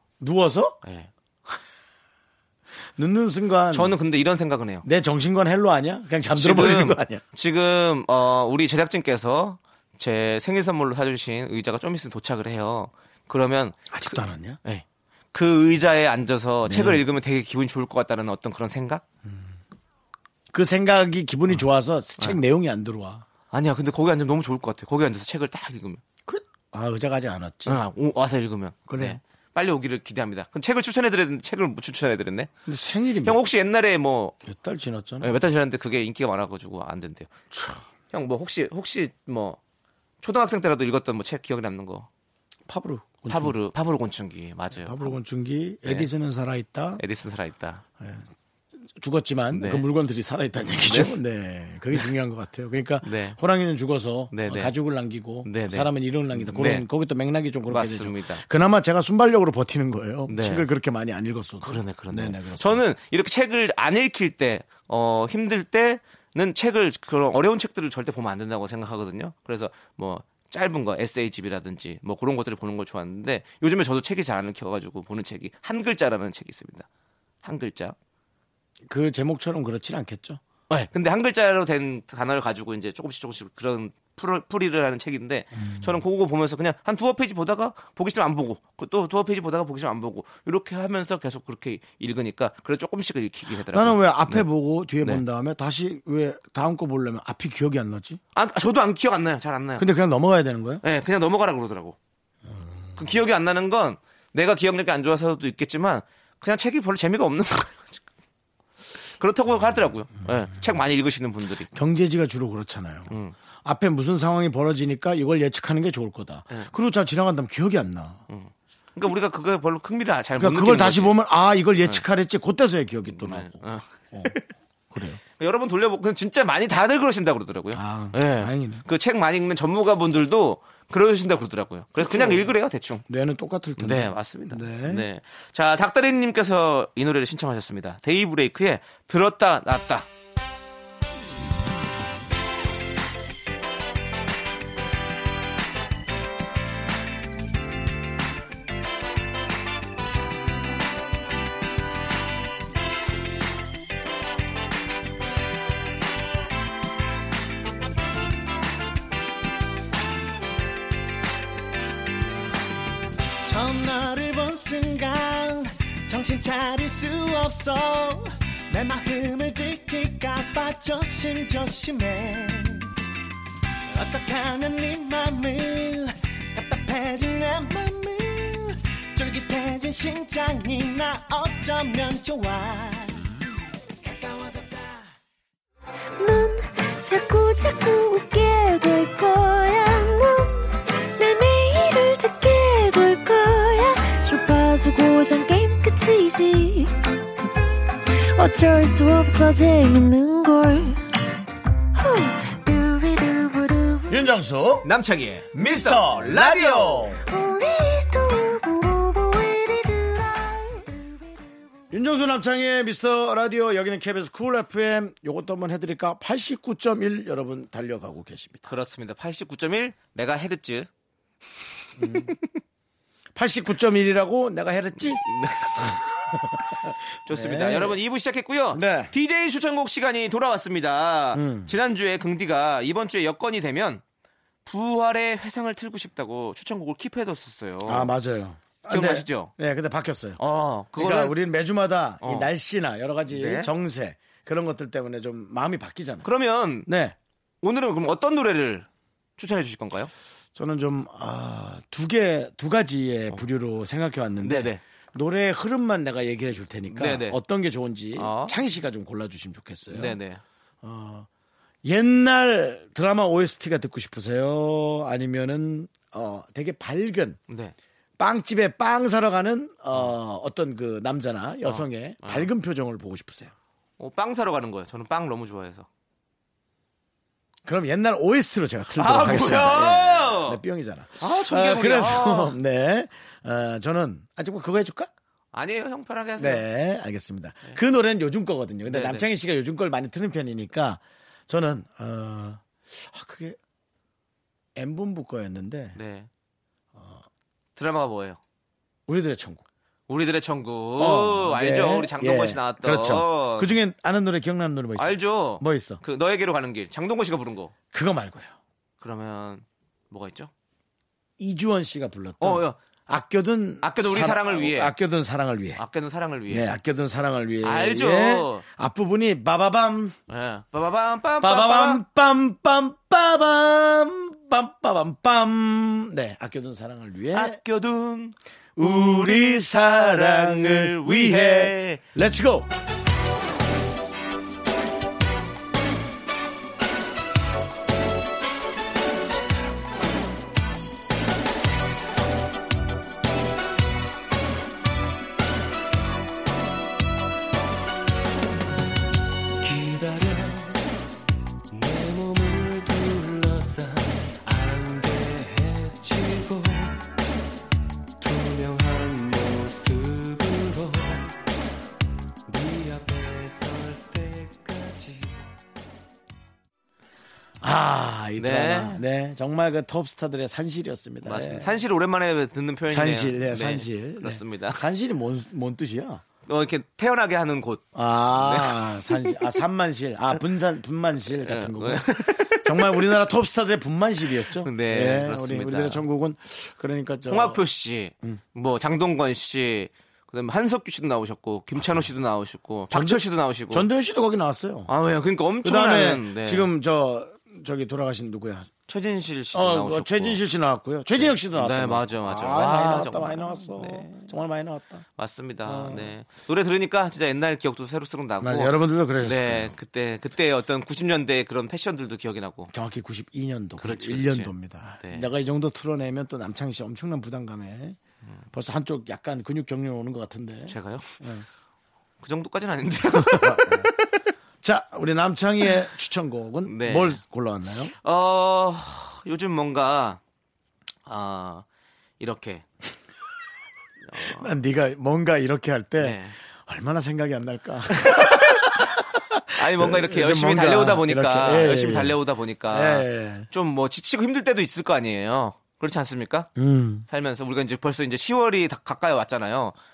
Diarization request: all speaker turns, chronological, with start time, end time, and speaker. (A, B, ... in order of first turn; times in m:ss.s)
0:00.2-0:00.8 A
0:00.8-0:01.1 B
0:03.0-0:04.0 A
0:03.7-0:04.8 B
0:04.8-0:07.2 A
0:06.3-0:19.0 B
0:13.9-0:14.6 A
0:16.6-0:17.0 A
0:19.2-0:19.5 A
0:20.5-0:23.2 A
0:23.5-0:26.0 B
0:26.2-0:27.8 A
0:27.6-0:32.5 B
0:28.9-0:29.2 A
0:32.6-0:33.4 A
0:33.2-0:34.4 B
0:34.4-0:35.3 A
0:35.2-0:37.3 B
0:37.5-0:37.8 A
0:38.1-0:39.6 B
0:40.2-0:42.1 B
0:42.7-0:43.6 A
0:43.3-0:45.2 B
0:44.7-0:47.0 A
0:45.8-0:46.1 B
0:47.0-0:47.8 B
0:48.0-0:48.3 A
0:49.0-1:02.9 A
0:49.5-0:49.8 B
0:50.8-0:51.2 B
0:53.0-0:53.4 B
0:54.3-0:54.7 B
0:55.4-0:56.8 B
0:57.7-0:58.4 B
1:00.3-1:00.7 B
1:01.6-1:16.9 B
1:17.4-1:18.0 B
1:18.8-1:20.4 A
1:20.7-1:34.4 B
1:25.6-1:26.0 A
1:33.7-1:38.2 A
1:38.3-1:39.9 B
1:39.8-1:40.8 A
1:40.8-1:42.0 B
1:42.5-1:42.7 A
1:43.0-1:48.0 B
1:49.2-1:51.7 B
1:51.7-1:53.1 A
1:53.1-1:53.3 B
1:53.6-1:58.2 A
1:58.3-2:01.2 B
2:00.4-2:04.4 A
2:03.1-2:04.4 B
2:04.9-2:05.2 A
2:05.4-2:13.0 B
2:07.7-2:08.8 A
2:12.0-2:12.5 A
2:13.1-2:15.0 A
2:13.8-2:20.1 B
2:43.4-2:52.9 C
2:53.9-3:03.3 C
3:04.0-3:05.1 C
3:06.2-3:17.0 D
3:18.3-3:21.0 D
3:21.9-3:24.3 D
3:24.1-3:24.9 A
3:24.8-3:27.1 B
3:25.5-3:27.2 A
3:27.3-3:31.0 D
3:31.9-3:38.7 A
3:38.6-3:40.9 B
3:42.0-3:42.4 A
3:43.3-3:45.2 A
3:45.2-3:45.9 B
3:45.8-3:48.0 A
3:47.3-3:54.0 B
3:48.7-3:49.1 A
3:51.3-3:51.7 A
3:54.6-3:58.1 B
3:57.8-4:00.4 A
3:58.9-3:59.5 B
4:00.4-4:01.4 B
4:00.9-4:06.3 A
4:02.2-4:02.5 B
4:03.3-4:03.7 B
4:06.2-4:06.9 B
4:06.8-4:07.2 A
4:07.6-4:10.1 B
4:10.5-4:20.2 A
4:14.4-4:14.8 B
4:16.9-4:17.4 B
4:18.2-4:18.6 B
4:19.9-4:20.4 B
4:20.8-4:21.3 A
4:21.8-4:27.4 A
4:27.5-4:27.7 B
4:28.2-4:33.5 A
4:31.6-4:32.5 B
4:34.0-4:35.9 B
4:37.6-4:45.1 A
4:39.0-4:40.6 B
4:41.2-4:42.6 B
4:45.5-4:46.6 B
4:46.4-4:53.6 A
4:48.8-4:49.3 B
4:54.8-4:56.0 A
4:55.9-4:56.3 B
4:56.9-4:57.2 A
4:57.8-4:58.4 B
4:59.1-4:59.6 A
5:00.1-5:03.8 B
5:01.0-5:06.0 A
5:05.0-5:07.7 B
5:07.9-5:08.5 A
5:09.0-5:10.5 B
5:11.4-5:15.8 A
5:12.4-5:12.8 B
5:13.8-5:14.9 B
5:15.8-5:16.8 B
5:16.5-5:20.2 A
5:17.6-5:18.6 B
5:20.3-5:22.0 B
5:21.4-5:27.6 A
5:27.3-5:32.0 B
5:28.8-5:32.7 A
5:49.6-5:50.8 E
5:51.7-5:57.0 E
5:58.2-6:01.3 E
6:02.5-6:05.5 E
6:07.6-6:11.8 A
6:08.4-6:09.0 B
6:11.2-6:14.8 B
6:12.9-6:16.2 A
6:16.4-6:19.4 B
6:17.9-6:27.6 A
6:21.4-6:23.1 B
6:24.6-6:26.0 B
6:27.3-6:33.9 B
6:32.9-6:34.9 A
6:34.9-6:36.7 B
6:35.6-6:38.7 A
6:38.9-6:40.4 B
6:39.5-6:45.0 A
6:41.1-6:44.2 B
6:45.2-6:52.7 B
6:45.6-6:46.1 A
6:48.4-6:49.8 A
6:52.7-6:58.0 A
6:53.8-6:55.3 B
6:58.5-7:01.4 A
7:00.7-7:01.1 B
7:02.2-7:03.9 B
7:03.1-7:03.9 A
7:04.6-7:07.9 A
7:06.6-7:07.2 B
7:08.0-7:10.2 B
7:11.0-7:11.6 B
7:12.2-7:12.6 B
7:14.1-7:14.5 B
7:14.2-7:23.5 A
7:16.0-7:16.3 B
7:17.9-7:18.7 B
7:19.6-7:26.5 B
7:26.6-7:27.0 A
7:27.1-7:29.8 B